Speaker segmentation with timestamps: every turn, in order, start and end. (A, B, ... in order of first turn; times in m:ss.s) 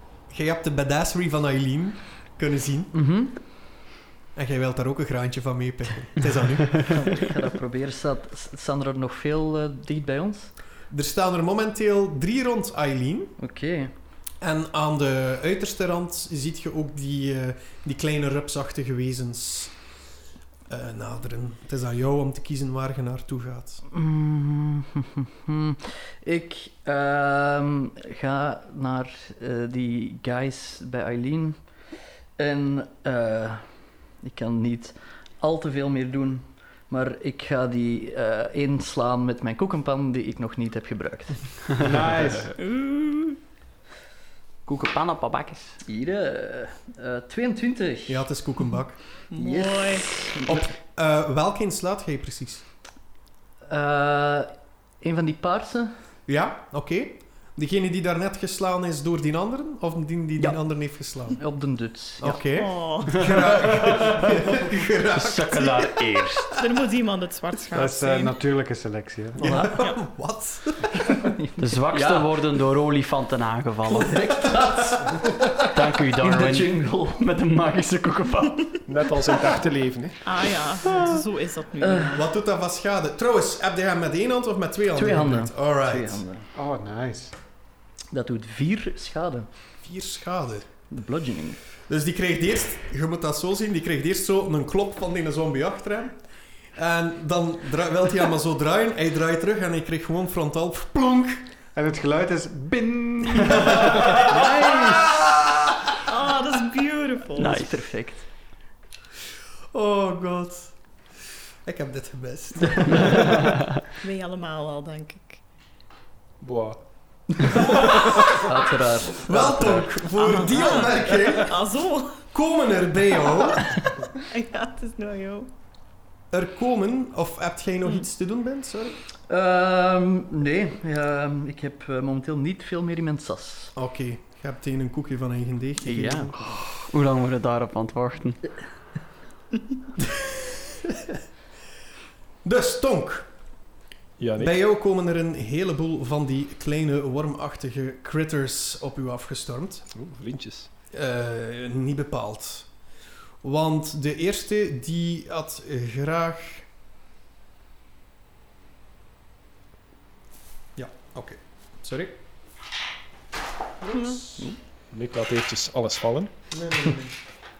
0:00.3-0:03.0 A
0:02.9-0:03.4 B
0:04.4-0:07.0 A
0:06.9-0:10.5 B
0:10.9-0:13.4 A
0:13.4-0:13.9 B
0:14.4-0:19.8 A
0:20.7-0:23.8 A
0:23.9-0:31.6 B
0:32.4-0:41.8 B
0:41.8-0:42.5 C
0:42.6-0:43.4 D
0:44.7-0:45.8 E
0:45.8-0:48.2 B
0:48.1-0:49.2 A
0:49.3-0:50.3 D
0:49.4-0:50.7 B
0:50.4-0:52.6 A
0:53.7-0:55.9 B
0:56.3-1:01.4 A
1:01.3-1:02.4 B
1:02.2-1:06.4 A
1:02.5-1:03.3 D
1:03.3-1:04.1 E
1:05.1-1:06.6 E
1:06.6-1:08.3 D
1:07.7-1:09.4 C
1:09.4-1:11.2 A
1:09.4-1:09.8 B
1:11.2-1:12.3 B
1:11.6-1:14.6 E
1:13.9-1:15.2 B
1:15.6-1:18.8 E
1:16.2-1:17.2 B
1:18.9-1:20.2 F
1:20.2-1:22.3 D
1:21.8-1:22.2 B
1:22.1-1:26.2 A
1:25.0-1:26.5 B
1:26.6-1:27.4 C
1:28.1-1:29.5 B
1:29.8-1:30.7 A
1:30.9-1:31.6 B
1:31.9-1:36.2 A
1:36.7-1:41.4 A
1:41.8-1:44.3 C
1:43.9-1:45.7 A
1:44.3-1:45.0 B
1:46.0-1:47.6 D
1:47.4-1:48.3 B
1:47.4-1:47.7 E
1:49.7-1:50.8 A
1:51.6-1:53.5 A
1:54.0-1:55.4 D
1:56.4-1:56.8 F
1:58.3-2:00.0 B
1:59.2-2:01.5 A
2:00.2-2:02.3 D
2:02.3-2:03.8 A
2:03.2-2:05.5 D
2:06.3-2:09.0 A
2:09.3-2:13.7 B
2:13.8-2:16.4 A
2:15.8-2:16.6 B
2:16.6-2:18.6 E
2:20.0-2:20.9 A
2:22.4-2:23.3 A
2:24.2-2:24.6 F
2:24.4-2:29.9 A
2:29.9-2:30.7 F
2:30.9-2:32.8 A
2:33.4-2:36.7 A
2:40.8-2:42.2 A
2:43.9-2:44.4 A
2:43.9-2:44.2 D
2:44.9-2:46.3 F
2:46.5-2:47.2 A